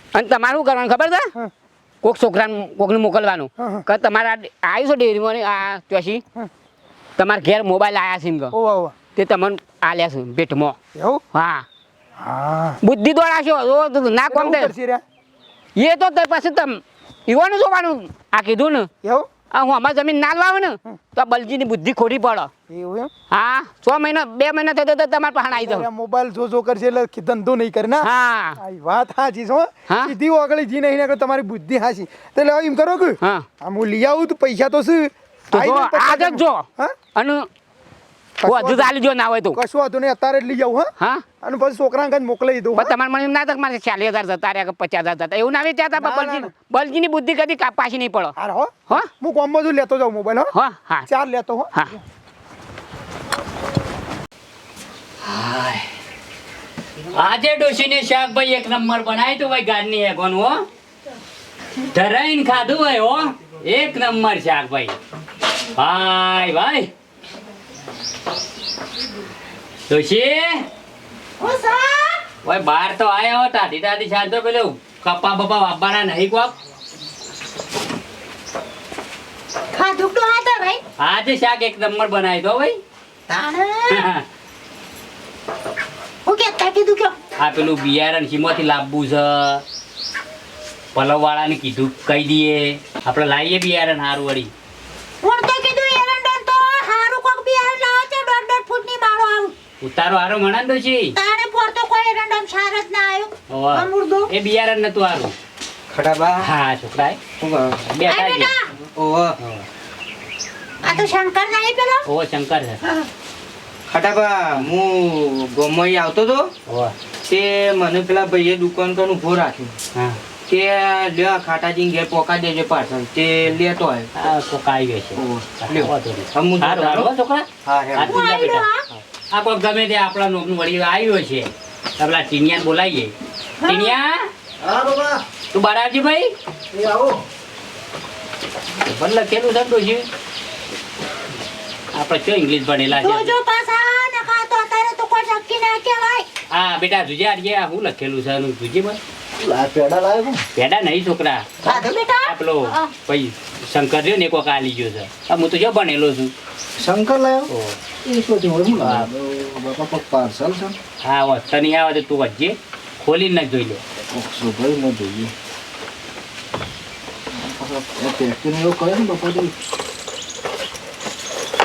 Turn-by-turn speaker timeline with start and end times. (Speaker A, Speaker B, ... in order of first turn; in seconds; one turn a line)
Speaker A: 0.1-1.3
Speaker A: 2.0-6.2
Speaker B: 3.6-3.8
Speaker A: 7.2-8.5
Speaker B: 8.5-8.9
Speaker A: 9.2-10.8
Speaker B: 10.9-11.2
Speaker A: 11.3-11.6
Speaker B: 12.2-12.8
Speaker A: 12.8-14.7
Speaker B: 14.3-15.0
Speaker A: 15.8-18.9
Speaker B: 19.0-19.3
Speaker A: 19.5-22.5
Speaker B: 22.7-23.1
Speaker A: 23.3-25.9
Speaker B: 25.5-36.9
Speaker A: 28.0-28.6
Speaker A: 33.2-33.5
Speaker A: 35.5-37.5
Speaker B: 38.4-38.9
Speaker A: 38.4-39.6
Speaker B: 39.5-40.9
Speaker B: 41.4-42.9
Speaker A: 42.8-48.3
Speaker B: 46.0-46.5
Speaker B: 48.4-50.5
Speaker A: 50.5-51.1
Speaker B: 51.1-52.0
Speaker C: 55.2-55.9
Speaker C: 57.1-60.6
Speaker C: 61.9-64.9
Speaker C: 65.8-66.9
Speaker C: 69.9-70.7
Speaker D: 71.4-72.2
Speaker C: 72.4-76.5
Speaker D: 79.7-80.8
Speaker C: 81.0-82.8
Speaker D: 83.3-84.1
Speaker C: 83.9-84.2
Speaker D: 86.2-87.1
Speaker C: 87.4-89.6
Speaker C: 90.9-94.5
Speaker D: 95.2-99.5
Speaker C: 99.8-101.1
Speaker D: 101.2-104.3
Speaker C: 103.5-105.3
Speaker E: 105.9-106.5
Speaker C: 106.4-107.2
Speaker E: 107.4-107.8
Speaker C: 107.9-108.5
Speaker D: 108.1-108.6
Speaker E: 109.0-109.3
Speaker C: 109.4-109.7
Speaker D: 110.8-112.0
Speaker C: 112.1-112.8
Speaker E: 113.9-116.5
Speaker C: 116.7-116.9
Speaker E: 117.2-119.8
Speaker E: 120.5-124.1
Speaker C: 124.2-128.7
Speaker E: 125.2-127.1
Speaker E: 127.6-128.3
Speaker D: 128.1-128.8
Speaker C: 129.3-133.1
Speaker D: 133.6-133.9
Speaker C: 133.7-134.3
Speaker F: 134.6-135.2
Speaker C: 135.5-136.3
Speaker F: 136.7-137.2
Speaker C: 138.8-140.0
Speaker C: 141.9-143.3
Speaker D: 143.0-146.3
Speaker C: 146.5-149.0
Speaker F: 149.4-150.4
Speaker C: 150.5-151.5
Speaker D: 151.6-152.9
Speaker C: 152.2-156.3
Speaker F: 156.8-157.5
Speaker C: 157.5-157.8
Speaker F: 158.1-160.8
Speaker C: 158.8-159.1
Speaker C: 161.0-163.8
Speaker F: 164.1-165.3
Speaker F: 167.3-169.5